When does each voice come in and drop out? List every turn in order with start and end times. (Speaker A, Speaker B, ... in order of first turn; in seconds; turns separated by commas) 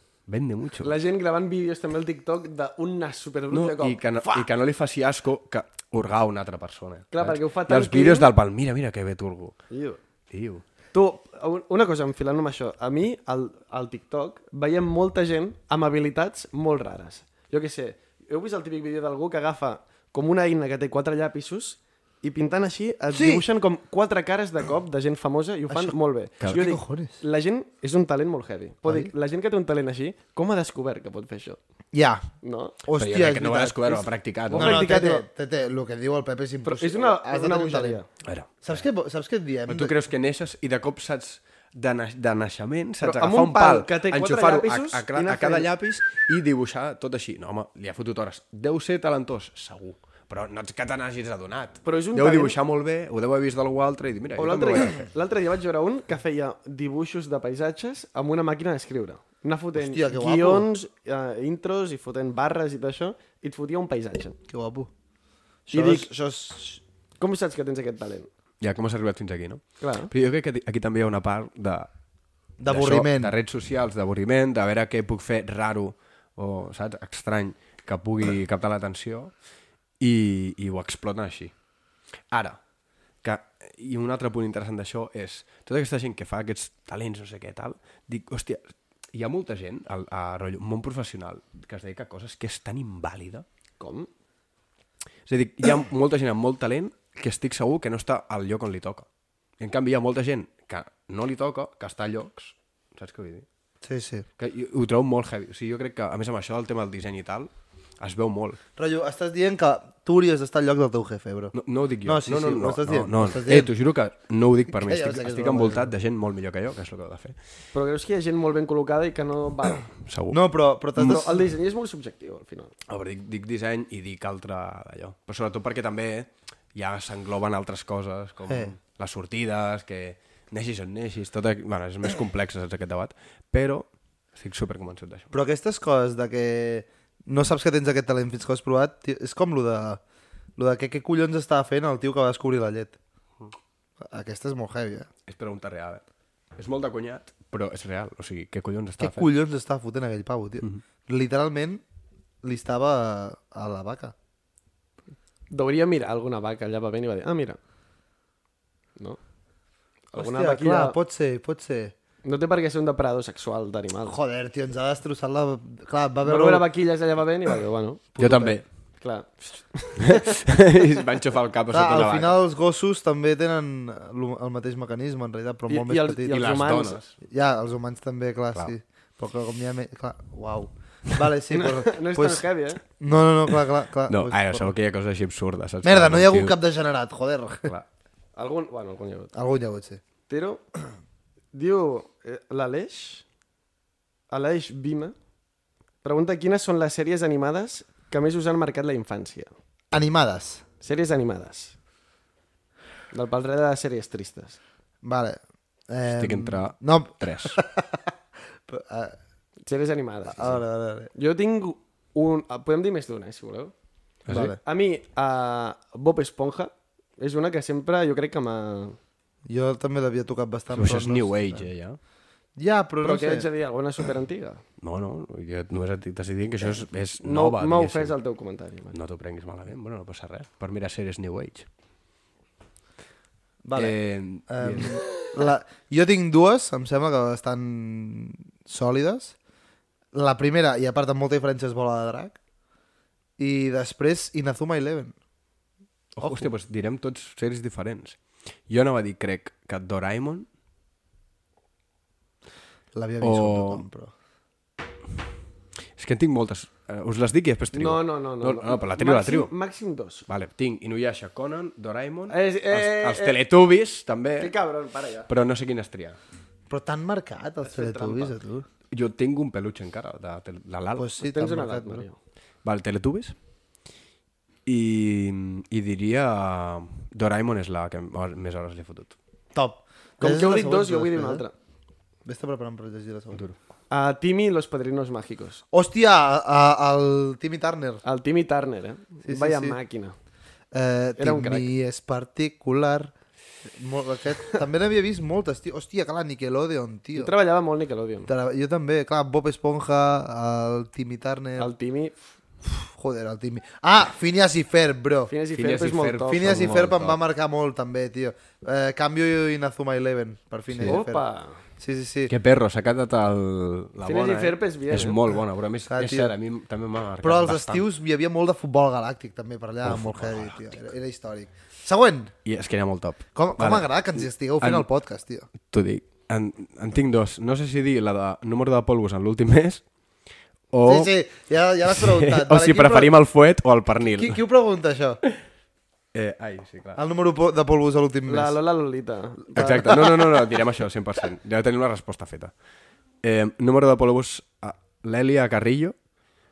Speaker A: 0.3-0.9, Speaker B: 0.8-4.5, Speaker A: 3.5-9.6, Speaker B: 7.1-8.3, Speaker B: 9.7-10.0, Speaker A: 10.3-10.6, Speaker B: 10.9-31.6, Speaker C: 23.1-23.4, Speaker C: 25.7-27.2, Speaker C: 28.9-29.1, Speaker C: 31.9-32.3, Speaker B: 32.4-32.8, Speaker C: 32.8-38.0, Speaker A: 32.9-34.9, Speaker B: 34.5-35.2, Speaker B: 36.6-38.1, Speaker A: 38.2-38.8, Speaker C: 38.6-39.9, Speaker A: 39.7-55.1, Speaker B: 43.0-45.7, Speaker B: 51.8-52.6, Speaker B: 54.4-64.4, Speaker C: 59.8-60.7, Speaker C: 64.5-64.9, Speaker C: 65.7-66.8, Speaker B: 65.7-66.1, Speaker B: 67.2-68.3, Speaker A: 68.6-71.9, Speaker B: 69.8-70.1, Speaker C: 72.6-73.3, Speaker A: 72.7-79.3, Speaker A: 80.0-81.5, Speaker A: 82.3-82.6, Speaker A: 83.2-93.4, Speaker B: 93.8-94.1, Speaker A: 95.3-99.0, Speaker A: 99.6-103.5, Speaker C: 103.8-104.2, Speaker A: 104.4-108.6, Speaker C: 108.8-113.7, Speaker A: 111.5-117.3, Speaker C: 114.8-115.9, Speaker B: 117.7-119.8, Speaker A: 120.0-120.4, Speaker C: 120.3-121.4, Speaker B: 121.0-122.7, Speaker A: 122.9-135.3, Speaker C: 128.5-128.7, Speaker C: 135.3-140.0, Speaker C: 140.6-143.0, Speaker C: 144.0-145.1, Speaker A: 145.2-146.0, Speaker A: 146.6-149.3, Speaker C: 149.0-151.8, Speaker C: 152.4-154.1, Speaker B: 155.5-157.6, Speaker B: 160.1-160.9, Speaker C: 160.1-161.9, Speaker B: 162.2-164.2, Speaker C: 164.0-166.7, Speaker B: 166.2-168.0, Speaker C: 168.1-168.6, Speaker A: 168.2-168.6, Speaker B: 169.0-170.4, Speaker A: 170.0-172.3, Speaker C: 171.7-176.3, Speaker B: 175.7-177.0, Speaker A: 176.3-177.1, Speaker C: 177.2-184.7, Speaker B: 181.5-182.8, Speaker A: 184.1-186.6, Speaker C: 185.8-187.7, Speaker B: 188.3-189.3, Speaker C: 189.3-190.0, Speaker B: 190.3-190.6, Speaker B: 191.5-193.2, Speaker B: 194.3-195.1, Speaker B: 196.0-199.5, Speaker C: 199.9-200.6, Speaker B: 200.8-201.8, Speaker B: 203.1-204.6, Speaker C: 205.0-208.1, Speaker A: 206.1-207.6, Speaker C: 208.7-209.2, Speaker B: 209.7-210.6, Speaker C: 210.3-211.1, Speaker B: 211.1-213.7, Speaker A: 214.2-214.5, Speaker C: 214.3-214.6, Speaker B: 214.6-219.0, Speaker C: 219.5-221.7, Speaker A: 220.7-222.0, Speaker C: 222.6-223.4, Speaker B: 223.0-224.6, Speaker A: 224.8-228.1, Speaker B: 227.2-228.9, Speaker A: 228.9-231.7, Speaker C: 233.6-234.0, Speaker A: 233.7-235.0, Speaker C: 234.5-239.3, Speaker C: 240.1-242.3, Speaker C: 243.4-245.1, Speaker A: 246.1-248.2, Speaker C: 246.2-246.5, Speaker A: 248.7-250.5, Speaker C: 252.9-254.1, Speaker A: 253.2-253.8, Speaker A: 256.0-259.5, Speaker B: 257.7-260.2, Speaker A: 260.3-264.5, Speaker B: 262.3-263.4, Speaker B: 264.4-265.3, Speaker A: 265.3-266.2, Speaker C: 266.7-268.6, Speaker B: 267.6-268.3, Speaker A: 268.9-271.1, Speaker C: 270.9-272.0, Speaker B: 271.2-272.1, Speaker A: 272.6-273.3, Speaker A: 274.6-279.1, Speaker C: 279.5-281.4, Speaker B: 280.2-281.5, Speaker C: 282.2-283.4, Speaker B: 283.9-285.6, Speaker C: 285.7-288.0, Speaker B: 288.0-290.1, Speaker C: 289.2-289.8, Speaker C: 290.7-293.1, Speaker B: 291.2-291.7, Speaker C: 293.7-297.3, Speaker B: 297.1-298.3, Speaker C: 298.3-301.7, Speaker B: 301.6-302.1, Speaker C: 302.9-305.3, Speaker B: 305.3-306.7, Speaker A: 305.5-307.2, Speaker C: 306.3-311.2, Speaker A: 310.7-311.0, Speaker B: 310.9-311.6, Speaker C: 311.8-312.3, Speaker A: 312.3-317.8, Speaker B: 314.0-315.2, Speaker C: 315.9-316.3, Speaker C: 317.2-322.3, Speaker A: 319.8-320.8, Speaker A: 322.4-324.9, Speaker C: 323.3-325.5, Speaker A: 325.6-329.8, Speaker A: 330.7-331.1, Speaker C: 330.8-333.1, Speaker A: 331.9-334.4, Speaker C: 334.1-335.2, Speaker A: 336.1-337.0, Speaker C: 336.9-338.6, Speaker B: 338.3-340.2, Speaker A: 339.6-342.5, Speaker A: 343.2-345.9